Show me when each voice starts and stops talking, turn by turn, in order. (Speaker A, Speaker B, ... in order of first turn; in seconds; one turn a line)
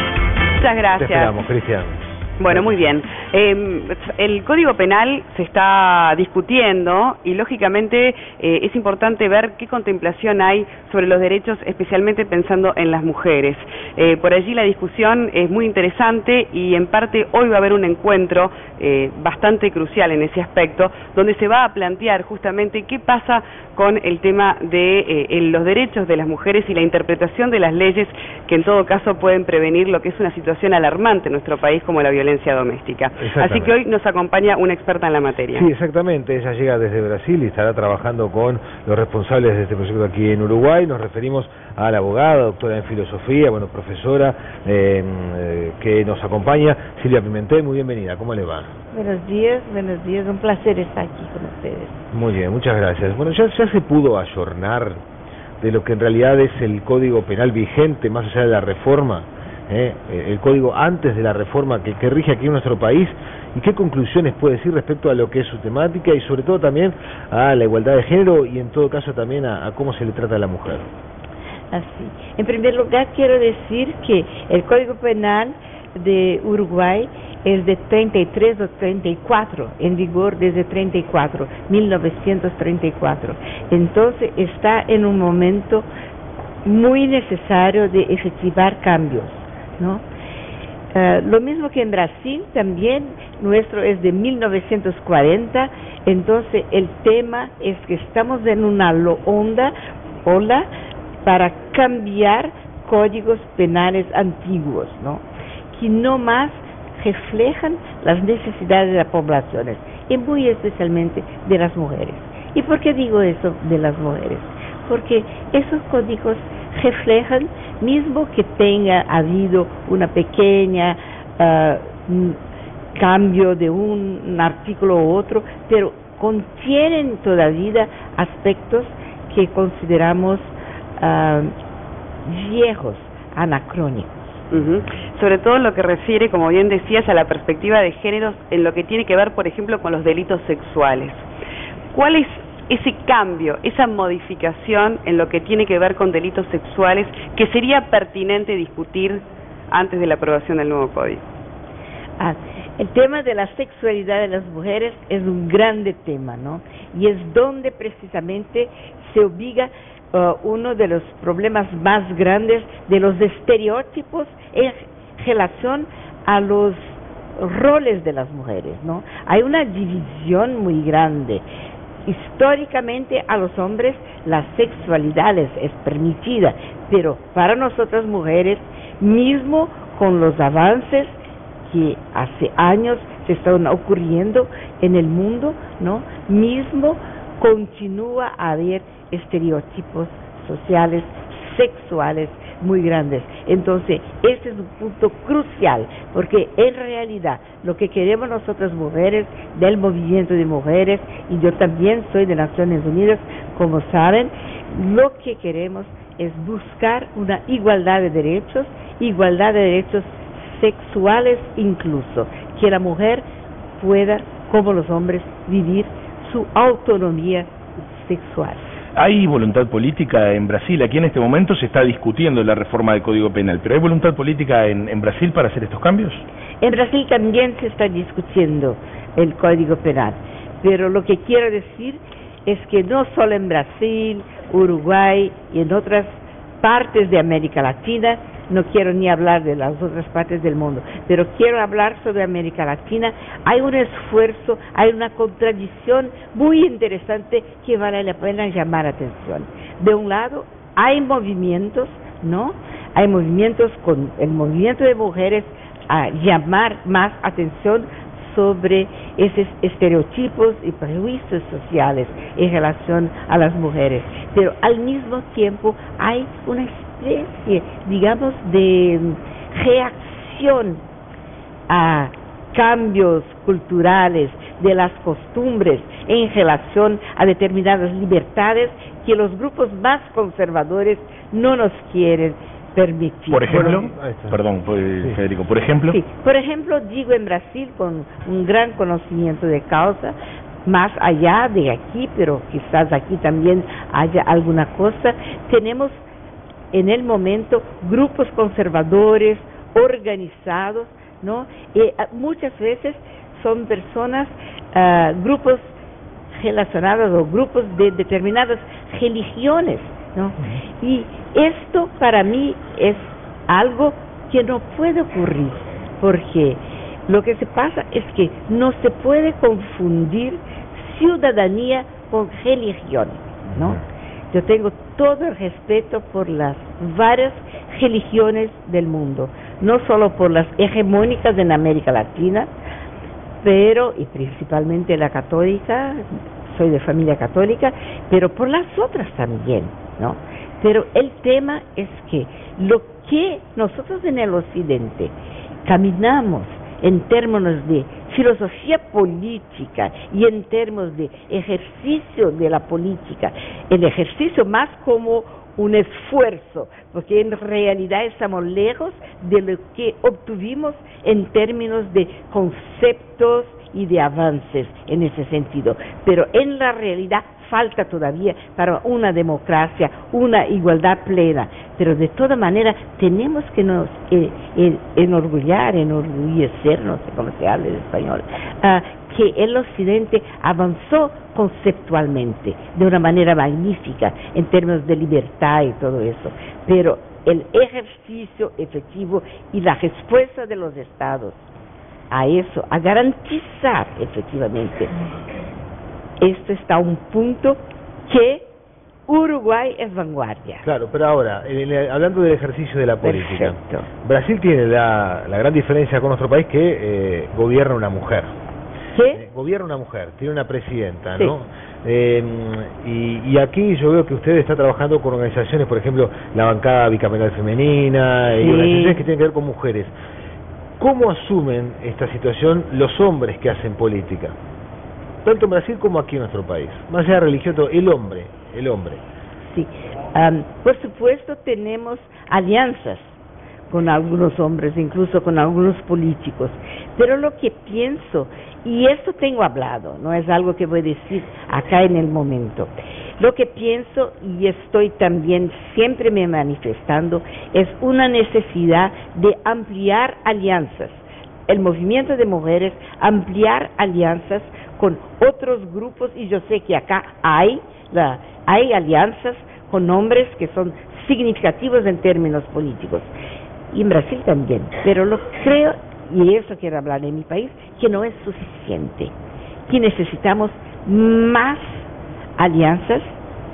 Speaker A: 0.6-1.3
Speaker B: 1.0-2.0
Speaker A: 2.4-35.7
Speaker B: 2.5-2.7
Speaker B: 33.2-33.7
Speaker B: 35.5-48.7
Speaker C: 48.9-52.1
Speaker B: 52.1-55.0
Speaker B: 55.6-70.9
Speaker C: 71.7-85.9
Speaker C: 86.6-90.0
Speaker C: 90.9-99.7
Speaker C: 100.2-100.7
Speaker C: 101.2-122.4
Speaker C: 123.0-131.5
Speaker C: 132.2-134.2
Speaker A: 134.5-141.2
Speaker A: 141.9-151.2
Speaker C: 152.2-171.4
Speaker C: 172.1-213.2
Speaker C: 213.8-218.8
Speaker D: 218.9-226.2
Speaker C: 226.6-270.8
Speaker C: 271.7-283.7
Speaker D: 283.3-286.0
Speaker B: 283.5-284.4
Speaker C: 285.9-296.0
Speaker C: 296.7-305.7
Speaker C: 306.3-332.5
Speaker C: 333.4-345.1
Speaker C: 345.6-391.5
Speaker C: 392.1-394.9
Speaker C: 396.2-398.5
Speaker C: 399.1-400.6
Speaker B: 400.6-408.3
Speaker C: 403.0-403.9
Speaker C: 408.9-409.2
Speaker B: 409.1-419.9
Speaker C: 418.4-419.1
Speaker B: 420.8-424.4
Speaker B: 425.2-429.0
Speaker C: 429.4-433.2
Speaker C: 433.7-463.1
Speaker C: 463.7-469.1
Speaker C: 469.7-473.2